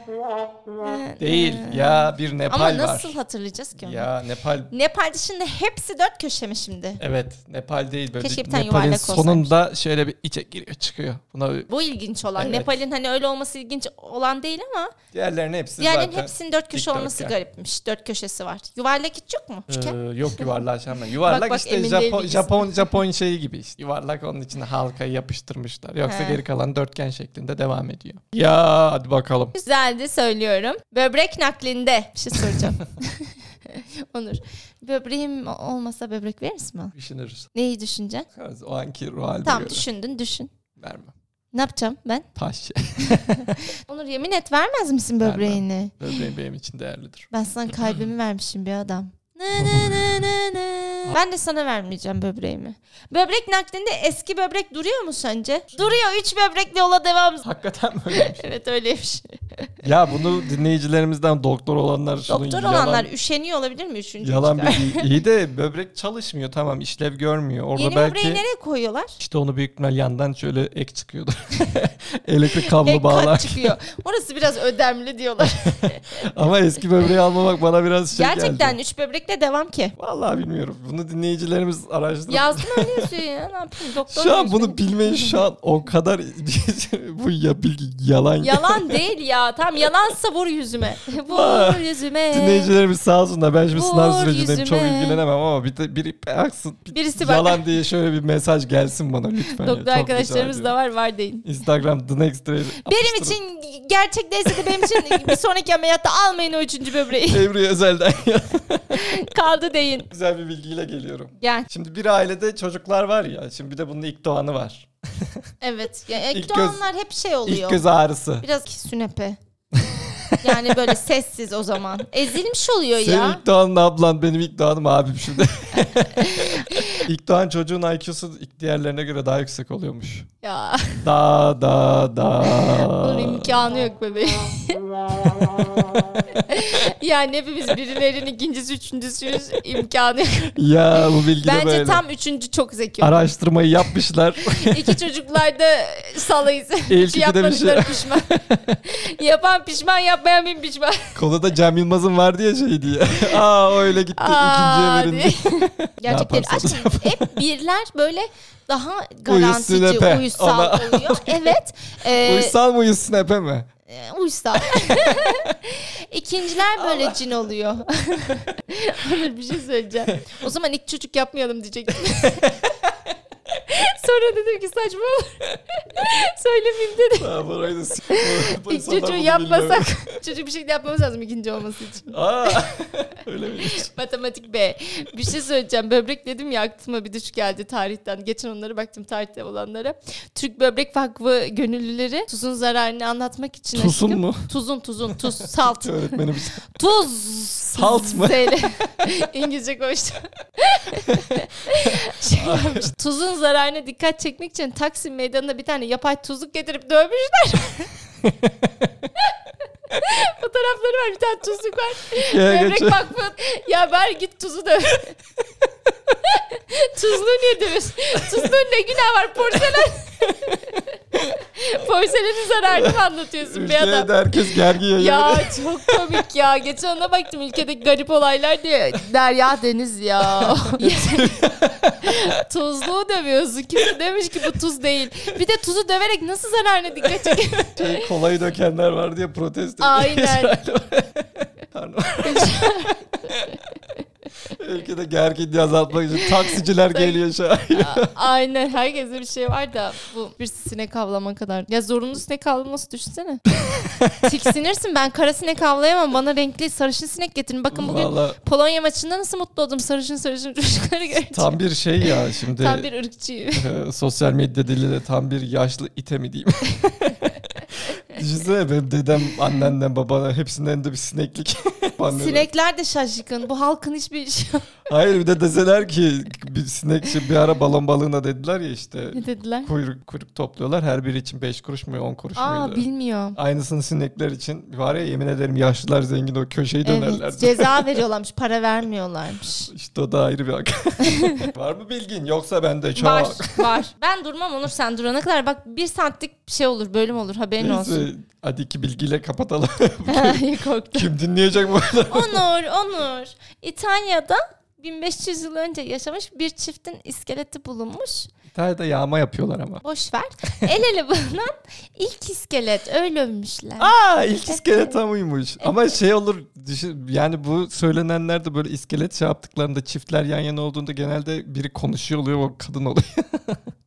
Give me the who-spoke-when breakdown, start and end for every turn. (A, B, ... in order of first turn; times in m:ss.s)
0:00.8-0:04.1 A
0:01.2-0:03.2 B
0:03.8-0:04.7 B
0:04.7-0:07.0 A
0:07.0-0:11.7 B
0:08.2-0:09.5 A
0:11.7-0:14.9 A
0:12.4-0:12.7 B
0:15.1-0:17.4 B
0:15.8-0:20.0 A
0:19.7-0:29.6 B
0:21.2-0:22.8 A
0:26.0-0:26.4 A
0:29.6-0:36.9 A
0:36.9-0:37.5 B
0:37.5-0:38.3 A
0:38.3-0:39.8 B
0:39.4-0:40.5 A
0:40.8-0:41.1 B
0:41.5-0:42.3 A
0:42.4-0:43.7 B
0:43.1-0:46.0 A
0:45.2-0:47.3 B
0:47.3-0:57.4 A
0:49.6-0:50.3 B
0:57.4-0:58.4 B
0:58.1-0:59.7 A
0:59.8-1:03.1 B
1:02.3-1:05.1 A
1:04.2-1:08.4 B
1:07.8-1:09.2 A
1:09.2-1:13.7 B
1:12.5-1:16.2 A
1:15.9-1:18.8 B
1:18.1-1:19.9 A
1:20.0-1:23.1 B
1:22.3-1:25.4 A
1:24.1-1:29.0 B
1:28.4-1:32.7 A
1:31.3-1:40.7 B
1:33.7-1:35.2 A
1:36.9-1:37.6 A
1:39.4-1:41.4 A
1:41.4-1:43.4 B
1:42.8-1:47.5 A
1:44.5-1:45.4 B
1:47.2-1:49.0 B
1:48.9-1:50.1 A
1:50.1-1:55.4 B
1:51.4-1:51.7 A
1:55.6-1:57.8 A
1:56.3-1:56.8 B
1:57.4-1:58.4 B
1:58.4-1:59.4 A
1:59.8-2:00.8 B
2:00.4-2:03.4 A
2:03.0-2:10.3 B
2:06.2-2:07.0 A
2:10.4-2:11.0 A
2:11.0-2:13.6 B
2:12.4-2:20.6 A
2:20.6-2:22.0 B
2:21.4-2:23.3 A
2:23.0-2:25.0 B
2:24.4-2:31.2 A
2:26.9-2:28.8 B
2:31.1-2:37.4 B
2:34.1-2:42.5 A
2:39.2-2:41.6 B
2:42.1-2:43.7 B
2:43.9-2:52.6 A
2:44.7-2:45.5 B
2:46.7-2:47.3 B
2:52.0-2:52.9 B
2:53.5-2:57.3 A
2:57.2-3:00.0 B
2:58.1-3:02.6 A
3:02.1-3:03.9 B
3:03.6-3:27.9 A
3:13.7-3:14.5 B
3:15.2-3:16.7 B
3:17.7-3:18.7 B
3:21.8-3:22.9 B
3:28.2-3:28.9 B
3:29.9-3:35.2 A
3:32.2-3:33.1 B
3:36.2-3:51.4 A
3:40.3-3:40.6 B
3:42.7-3:46.2 B
3:50.4-3:52.3 B
3:52.0-3:58.1 A
3:57.7-4:03.6 B
3:59.8-4:00.6 A
4:02.2-4:03.0 A
4:04.5-4:08.1 B
4:06.2-4:07.2 A
4:07.7-4:13.4 A
4:13.6-4:14.3 B
4:14.2-4:21.5 A
4:17.7-4:18.4 B
4:21.3-4:22.9 B
4:22.6-4:23.7 A
4:23.6-4:32.5 B
4:32.1-4:34.7 A
4:34.9-4:42.8 B
4:39.1-4:39.7 A
4:42.4-4:43.4 A
4:43.4-4:47.9 B
4:46.8-4:49.7 A
4:49.7-4:53.7 B
4:51.0-4:51.5 A
4:53.0-4:58.1 A
4:57.6-5:02.4 B
5:00.1-5:01.1 A
5:02.0-5:08.3 A
5:08.5-5:09.8 B
5:09.8-5:13.9 A
5:13.8-5:23.6 B